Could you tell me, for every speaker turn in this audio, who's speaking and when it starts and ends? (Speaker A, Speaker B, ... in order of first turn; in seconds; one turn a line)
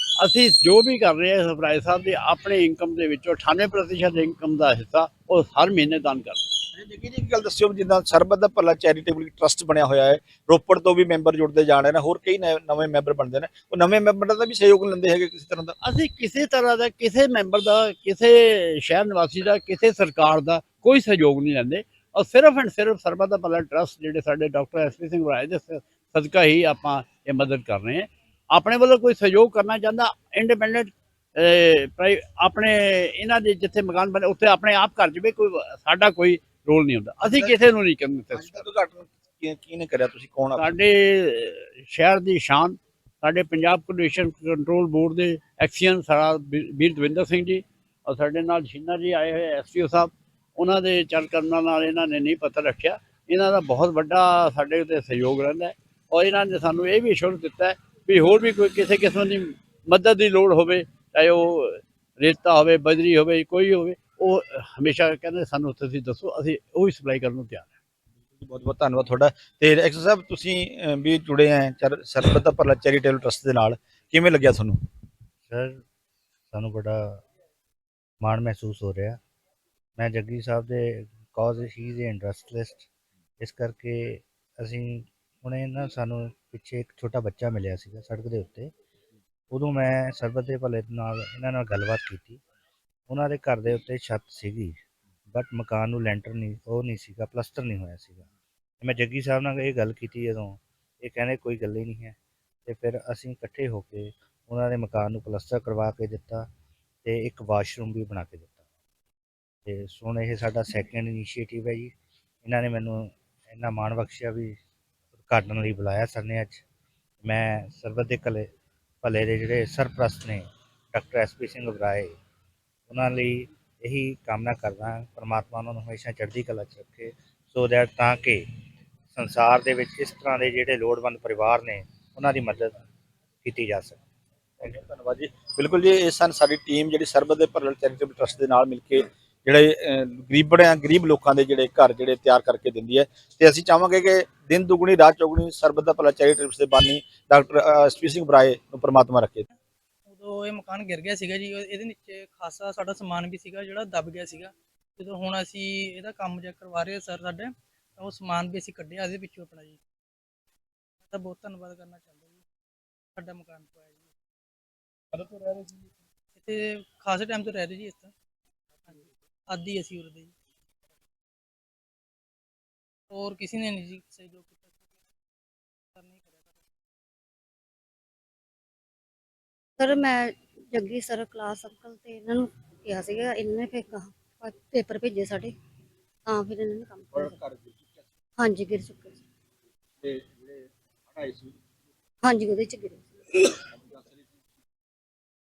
Speaker A: 0.2-6.4
Speaker B: 6.8-15.8
Speaker A: 15.8-38.6
Speaker B: 37.2-37.6
Speaker B: 38.3-40.7
Speaker A: 40.6-67.8
Speaker B: 68.4-74.8
Speaker C: 75.5-75.8
Speaker C: 76.5-77.2
Speaker C: 78.2-79.2
Speaker C: 80.0-82.9
Speaker C: 83.4-88.7
Speaker C: 89.5-92.4
Speaker C: 93.1-94.8
Speaker C: 95.3-98.2
Speaker C: 98.8-106.5
Speaker C: 107.0-108.6
Speaker C: 109.7-111.9
Speaker C: 112.4-114.6
Speaker C: 115.3-116.6
Speaker C: 117.2-118.5
Speaker C: 119.0-122.1
Speaker C: 122.9-128.4
Speaker C: 129.1-132.8
Speaker C: 133.4-134.0
Speaker B: 134.6-149.5
Speaker D: 150.1-159.8
Speaker D: 161.1-162.4
Speaker D: 163.2-164.1
Speaker D: 165.1-168.1
Speaker D: 168.8-170.3
Speaker D: 173.1-174.8
Speaker D: 175.9-176.6
Speaker E: 179.8-185.6
Speaker E: 186.3-187.4
Speaker B: 187.1-188.1
Speaker E: 188.4-189.2
Speaker B: 190.0-191.6
Speaker E: 192.2-193.1
Speaker B: 193.7-194.2